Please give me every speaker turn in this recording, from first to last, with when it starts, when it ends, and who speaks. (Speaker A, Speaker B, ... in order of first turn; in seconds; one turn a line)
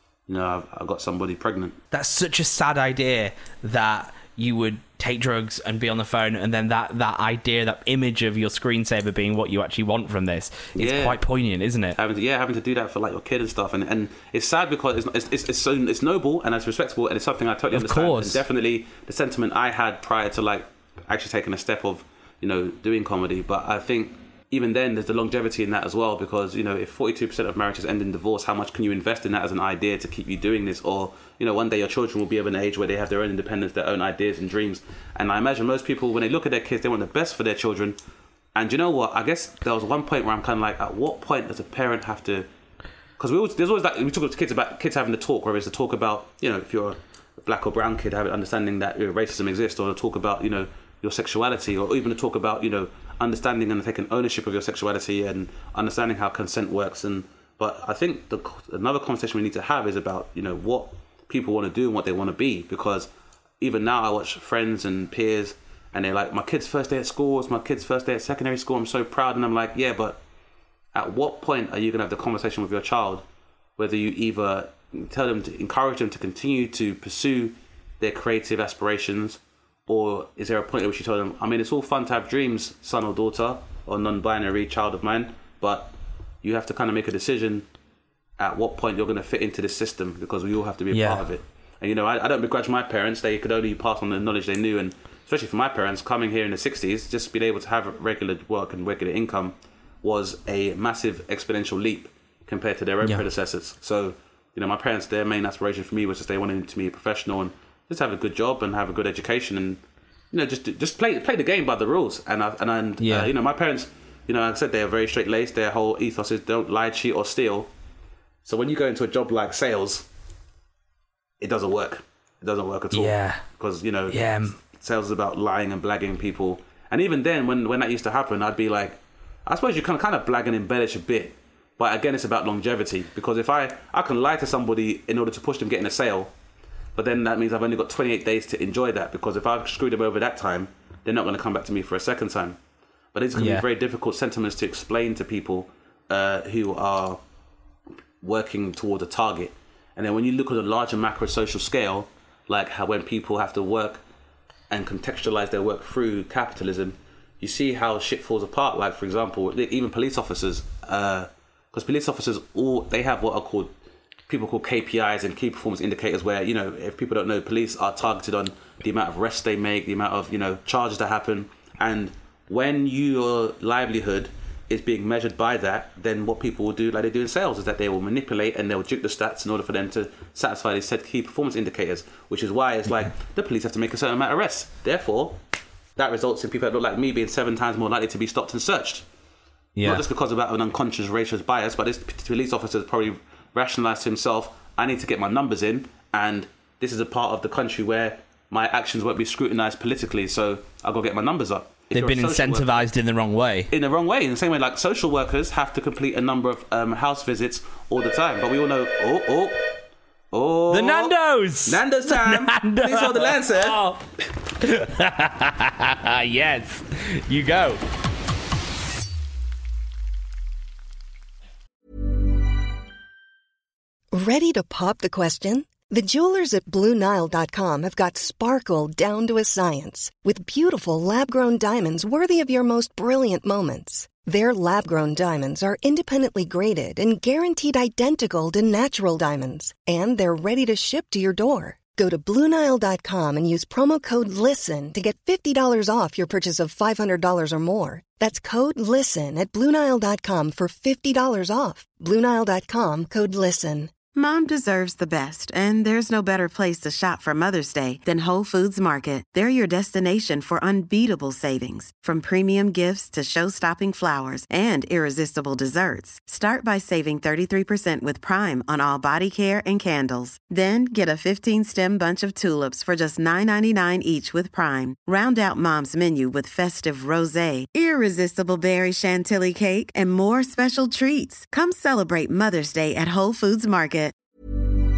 Speaker A: 0.3-1.8
Speaker B: 1.9-12.0
Speaker A: 10.8-11.2
Speaker A: 11.9-38.0
Speaker B: 17.7-18.4
Speaker A: 38.5-42.5
Speaker A: 43.2-63.1
Speaker A: 63.6-70.2
Speaker A: 71.0-73.2
Speaker A: 73.8-87.7
Speaker A: 88.4-109.8
Speaker B: 90.9-91.2
Speaker A: 110.3-117.7
Speaker B: 113.0-113.3
Speaker A: 118.5-120.1
Speaker A: 121.4-136.3
Speaker B: 122.9-123.4
Speaker B: 124.1-124.5
Speaker A: 136.9-142.6
Speaker A: 143.1-147.2
Speaker B: 143.4-143.7
Speaker A: 148.2-154.0
Speaker A: 154.7-163.7
Speaker A: 164.3-185.4
Speaker A: 186.0-189.0
Speaker B: 189.8-190.0
Speaker A: 189.8-202.8
Speaker B: 201.9-203.7
Speaker A: 203.7-209.7
Speaker A: 210.3-211.1
Speaker B: 210.7-214.0
Speaker A: 211.7-213.9
Speaker B: 214.6-217.8
Speaker C: 224.1-253.9
Speaker D: 254.2-284.1